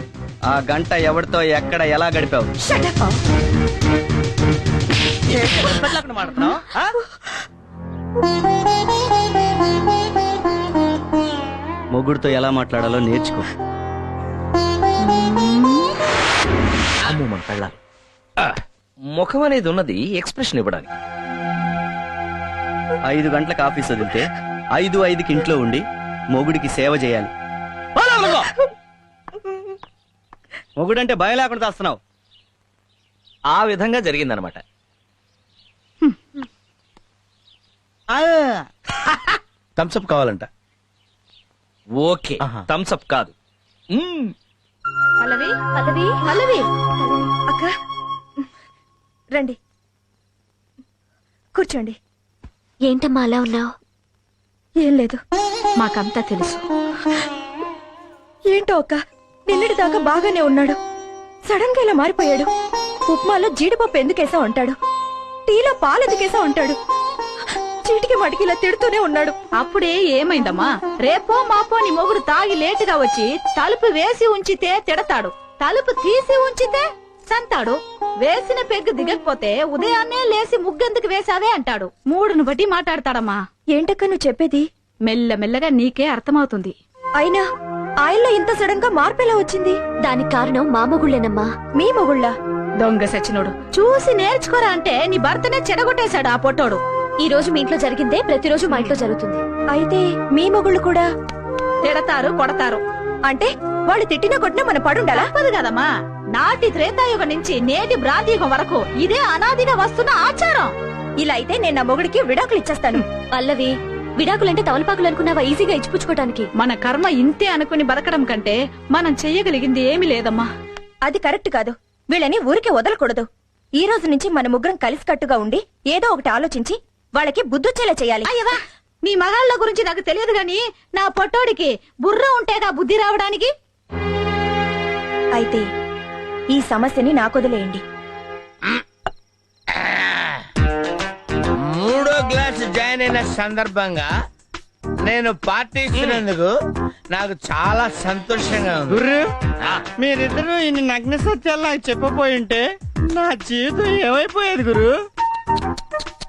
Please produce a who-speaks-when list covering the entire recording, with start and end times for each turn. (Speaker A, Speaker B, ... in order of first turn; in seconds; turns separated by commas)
Speaker A: 0.5-2.5, Speaker B: 2.6-3.2, Speaker A: 5.3-6.9, Speaker A: 11.9-13.5, Speaker C: 17.0-17.8, Speaker C: 18.4-20.9, Speaker A: 23.1-27.3, Speaker C: 28.0-28.5, Speaker A: 28.2-28.5, Speaker A: 30.8-32.0, Speaker C: 33.5-34.6, Speaker A: 38.1-38.6, Speaker D: 39.8-40.5, Speaker C: 42.0-43.3, Speaker C: 43.9-44.3, Speaker E: 45.2-45.6, Speaker F: 45.8-46.2, Speaker B: 46.2-47.7, Speaker B: 51.5-52.0, Speaker F: 52.9-53.7, Speaker B: 54.8-55.2, Speaker E: 55.8-56.6, Speaker B: 58.5-60.8, Speaker B: 61.5-62.5, Speaker B: 63.1-64.8, Speaker B: 65.5-66.8, Speaker B: 67.8-69.4, Speaker E: 69.6-83.4, Speaker B: 83.7-84.7, Speaker E: 85.1-86.7, Speaker B: 87.2-87.5, Speaker B: 88.0-89.8, Speaker F: 90.0-91.5, Speaker B: 91.8-92.3, Speaker E: 92.8-96.8, Speaker F: 97.2-99.4, Speaker B: 99.7-101.1, Speaker E: 101.8-102.8, Speaker B: 103.3-105.3, Speaker E: 105.1-110.7, Speaker B: 111.2-113.1, Speaker F: 113.3-116.5, Speaker E: 116.6-120.5, Speaker B: 121.1-128.3, Speaker E: 128.3-133.5, Speaker B: 135.3-135.7, Speaker B: 136.5-137.8, Speaker D: 139.7-140.4, Speaker D: 141.6-144.1, Speaker D: 145.1-146.5, Speaker D: 147.1-149.0, Speaker A: 148.9-149.2, Speaker A: 150.0-154.9